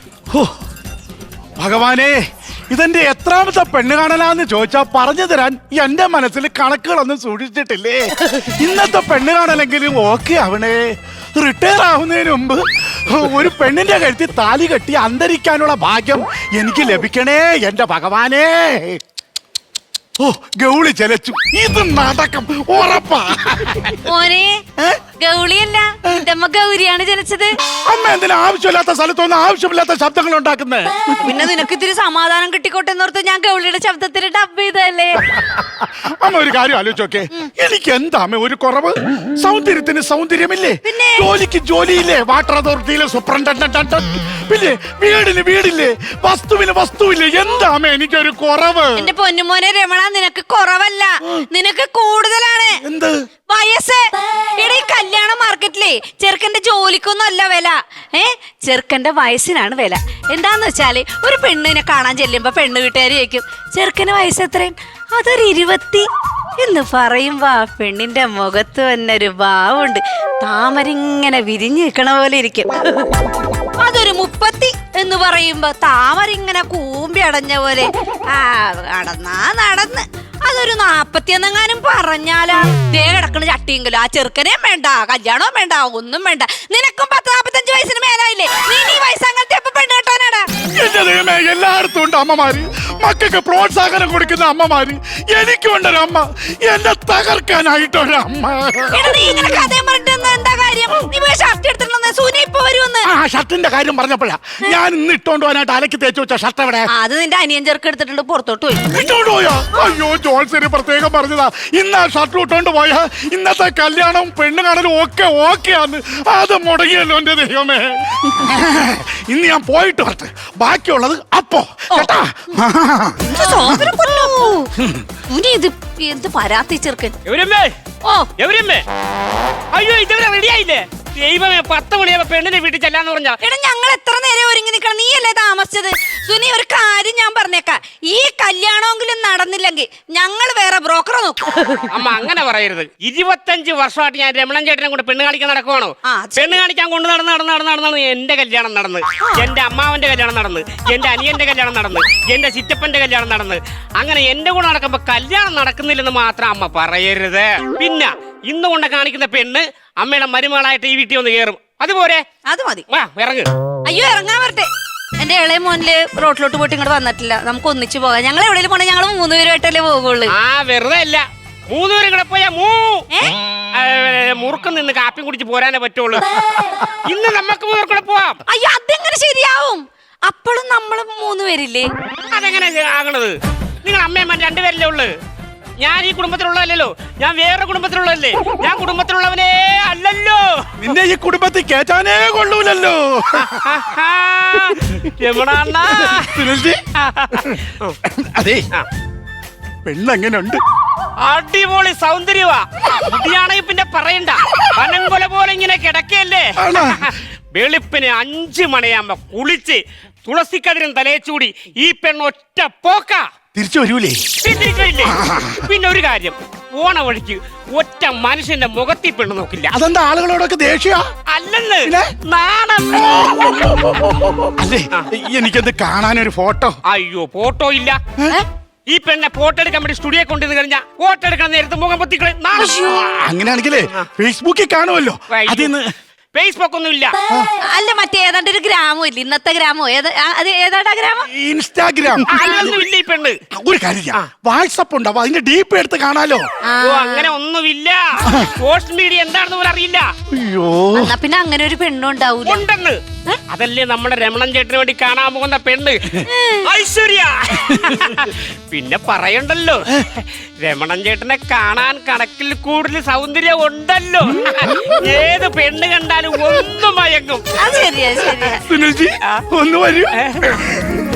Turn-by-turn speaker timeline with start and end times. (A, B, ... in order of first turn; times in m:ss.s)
0:01.6-0:02.2 A
0:02.7-0:19.0 A
0:20.2-0:24.0 A
0:24.0-0:24.6 B
0:24.8-0:25.0 A
0:25.2-0:27.6 B
0:27.9-0:31.1 A
0:31.2-0:35.3 B
0:35.4-0:49.1 A
0:40.8-0:41.3 B
0:49.0-0:52.8 B
0:52.8-0:53.1 A
0:53.5-0:54.0 B
0:54.6-1:06.0 B
1:06.6-1:12.7 B
1:13.8-1:30.4 B
1:30.7-1:39.7 A
1:38.9-1:43.1 B
1:43.0-1:46.9 A
1:46.9-1:49.0 B
1:48.9-2:03.9 A
2:03.2-2:04.7 B
2:04.8-2:05.1 A
2:05.3-2:07.1 B
2:07.2-2:07.7 C
2:08.0-2:08.3 B
2:08.4-2:08.8 C
2:09.7-2:13.4 C
2:13.4-2:21.8 B
2:21.9-2:42.2 C
2:26.1-2:26.6 B
2:42.5-2:42.8 B
2:42.9-2:43.5 C
2:43.8-2:44.7 B
2:45.2-2:50.3 B
2:50.3-2:53.1 C
2:53.7-2:56.3 C
2:57.1-2:58.4 C
2:58.5-3:01.9 B
3:02.3-3:05.1 C
3:05.8-3:10.6 C
3:10.8-3:13.6 A
3:13.4-3:16.4 C
3:15.9-3:16.8 A
3:17.0-3:17.9 C
3:17.3-3:18.6 A
3:19.8-3:20.6 A
3:21.2-3:33.2 C
3:26.6-3:27.1 A
3:33.5-3:34.2 A
3:34.4-3:39.7 C
3:35.0-3:35.7 A
3:39.7-3:41.0 A
3:41.3-3:43.7 C
3:41.8-3:42.1 A
3:43.2-3:46.8 A
3:46.9-3:48.0 C
3:48.9-3:52.8 C
3:52.5-3:53.0 B
3:52.9-3:55.8 A
3:55.3-3:55.7 C
3:56.3-3:57.2 C
3:57.6-4:01.3 B
4:01.3-4:02.3 A
4:02.3-4:03.4 C
4:02.3-4:02.6 B
4:03.5-4:06.4 A
4:06.6-4:07.3 B
4:06.8-4:10.1 C
4:10.3-4:11.1 A
4:10.9-4:12.6 B
4:12.4-4:13.0 C
4:13.5-4:27.6 C
4:16.3-4:16.7 B
4:27.5-4:28.6 B
4:28.6-4:30.1 A
4:30.2-4:30.5 C